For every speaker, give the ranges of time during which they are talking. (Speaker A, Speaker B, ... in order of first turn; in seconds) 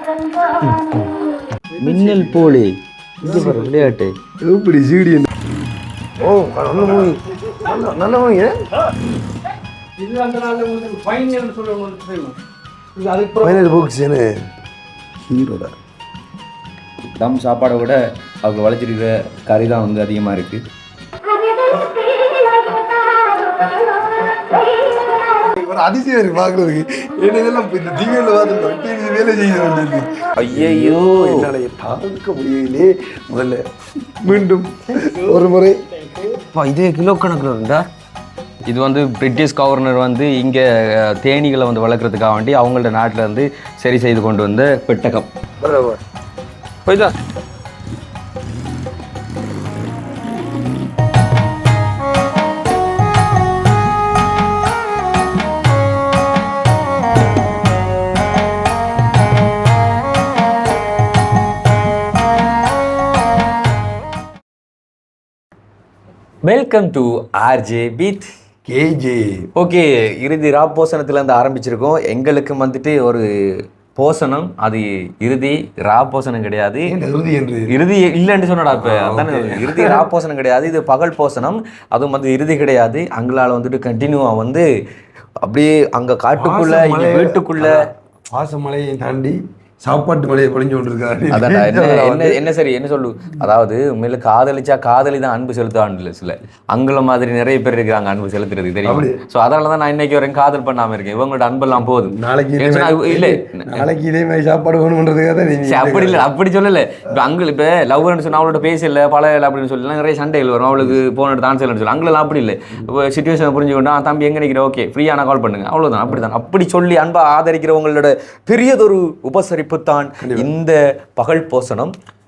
Speaker A: 0.6-1.1, 1.8-4.1, 17.2-20.6, 30.4-31.5, 36.5-37.9, 38.7-45.3, 46.9-47.1, 66.4-68.3, 69.5-77.0, 77.7-84.7, 85.4-87.8, 91.3-103.9, 105.7-121.9
Speaker B: 1.7-2.6, 6.8-7.1, 10.0-12.4, 13.0-13.9, 34.9-36.4
Speaker C: 3.2-5.3, 6.2-8.7, 13.4-14.3, 15.3-15.8, 25.4-35.8, 45.6-46.0, 68.7-69.5, 76.9-77.8, 78.7-80.0, 86.4-92.4, 98.8-99.2, 102.1-106.3, 120.2-120.5